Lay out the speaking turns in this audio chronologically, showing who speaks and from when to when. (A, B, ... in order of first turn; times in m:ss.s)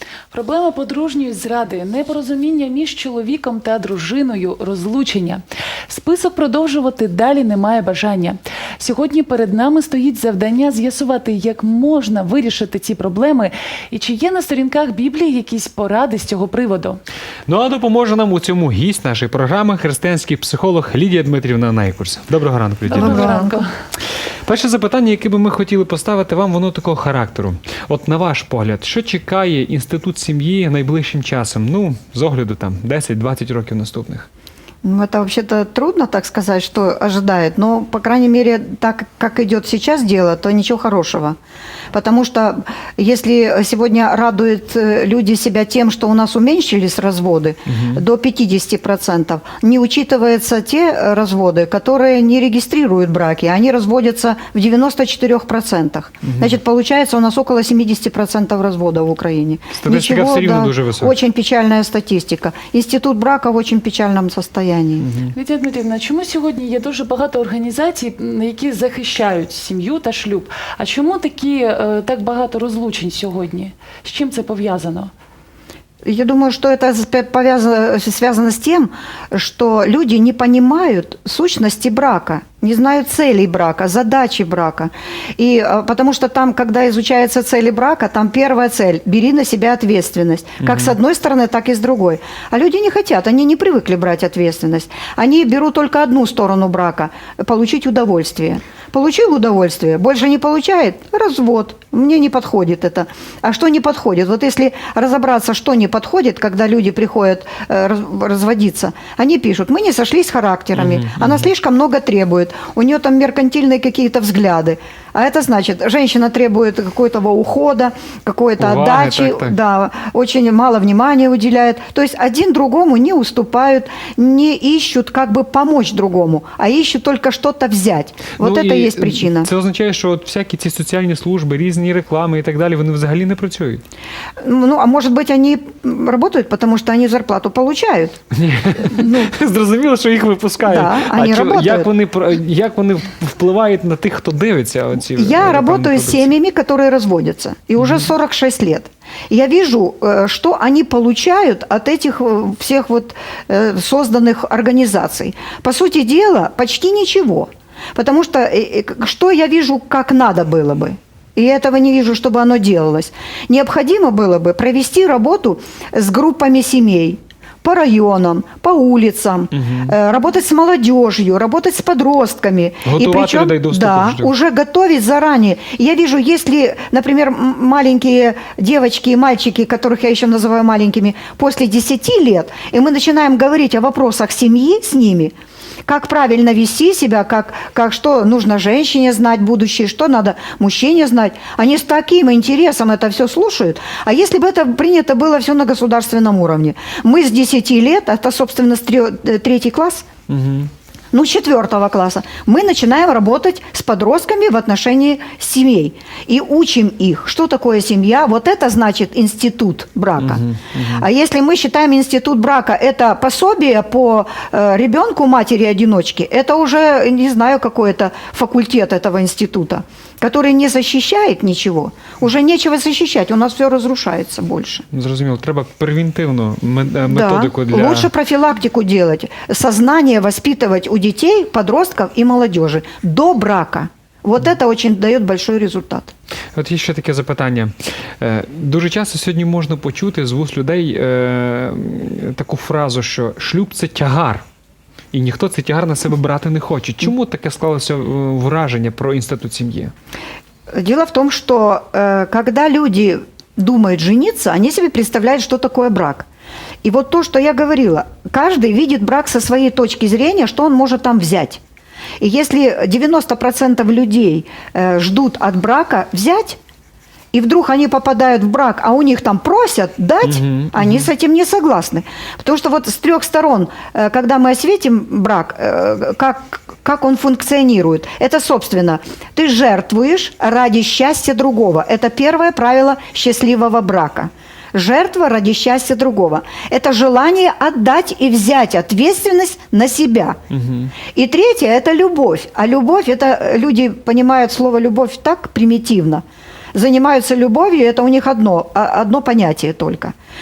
0:00.3-0:17.0 A
0:17.5-0:23.4 B
0:22.9-0:23.7 A
0:23.0-0:23.6 C
0:24.5-0:34.3 B
0:34.8-0:41.4 C
0:41.9-1:05.1 C
0:47.7-0:48.0 B
0:56.3-0:56.6 B
0:59.8-1:01.2 B
1:05.0-1:05.3 B
1:05.3-1:15.1 A
1:16.0-2:09.5 C
1:30.6-1:31.0 B
1:50.8-1:51.5 B
1:58.6-1:59.6 B
2:08.4-2:13.8 B
2:14.4-2:18.2 C
2:18.3-2:26.3 B
2:19.0-2:19.3 C
2:20.6-2:21.9 C
2:25.0-3:05.3 C
2:27.8-2:28.1 B
2:49.6-2:50.0 B
2:52.8-2:54.3 B
3:05.9-3:20.1 C
3:20.3-3:20.7 B
3:21.1-3:30.4 C
3:30.2-3:31.1 B
3:30.9-3:44.8 C
3:44.9-3:48.1 B
3:47.1-3:56.1 C
3:56.6-4:04.4 B
4:05.1-4:09.9 B
4:10.7-4:16.3 C
4:16.8-4:21.6 C
4:22.2-4:26.6 C
4:27.3-4:50.4 C
4:30.2-4:31.1 B
4:50.5-4:50.9 B
4:51.2-4:56.2 C
4:56.7-5:00.1 C